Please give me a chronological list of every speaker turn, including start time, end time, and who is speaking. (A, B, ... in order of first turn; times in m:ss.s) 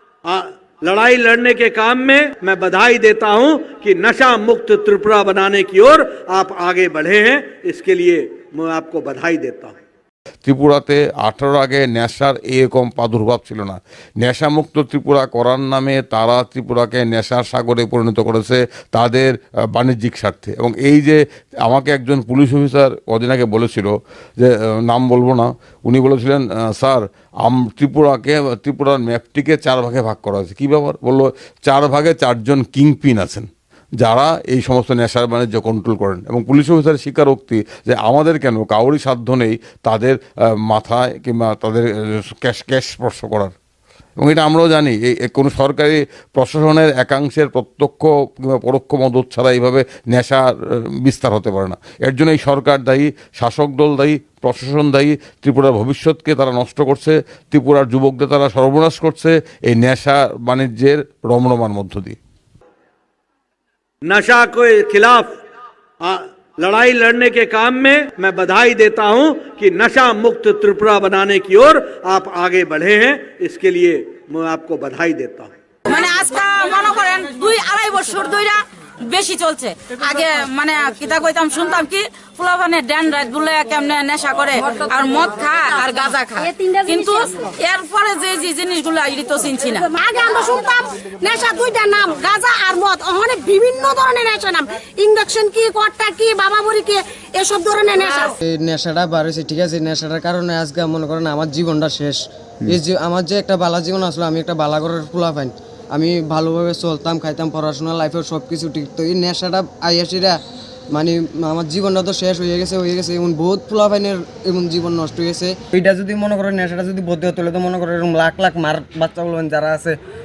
0:00.2-0:09.8 A
0:10.4-0:33.5 B
0:34.0-0:43.5 B
0:44.2-1:02.2 B
1:04.0-1:05.4 A
1:06.0-1:15.5 A
1:15.9-1:29.9 C
1:29.9-1:38.3 D
1:38.4-1:50.4 E
1:50.9-2:00.0 E